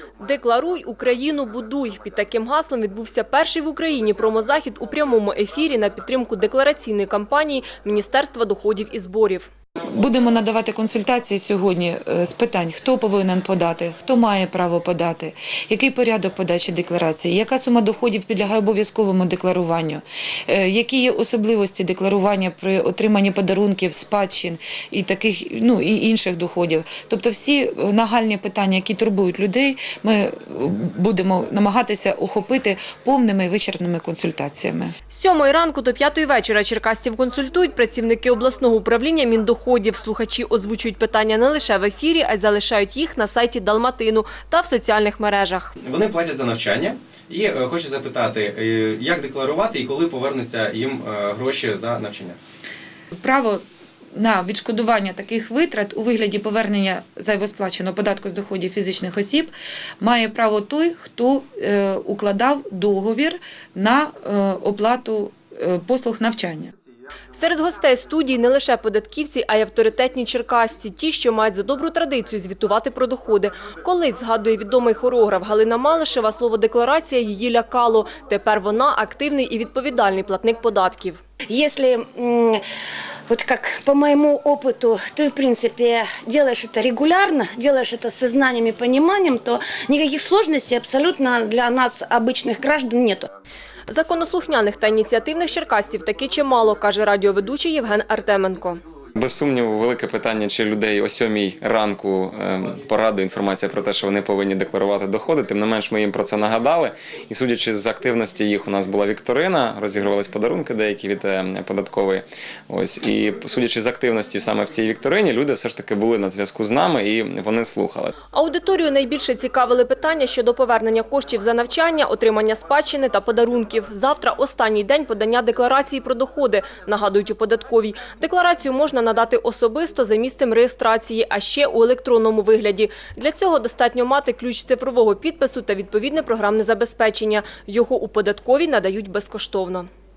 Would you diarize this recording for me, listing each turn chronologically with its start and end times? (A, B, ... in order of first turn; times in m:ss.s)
0:00.2-0:09.5 A
0:09.9-0:35.0 B
0:35.1-0:45.7 A
0:45.8-0:52.4 C
0:53.2-0:53.6 B
0:54.1-1:06.7 B
1:07.4-1:21.2 A
1:21.5-1:22.6 D
1:23.3-1:33.3 D
1:33.9-1:38.8 A
1:39.2-1:58.1 E
1:58.3-2:19.9 A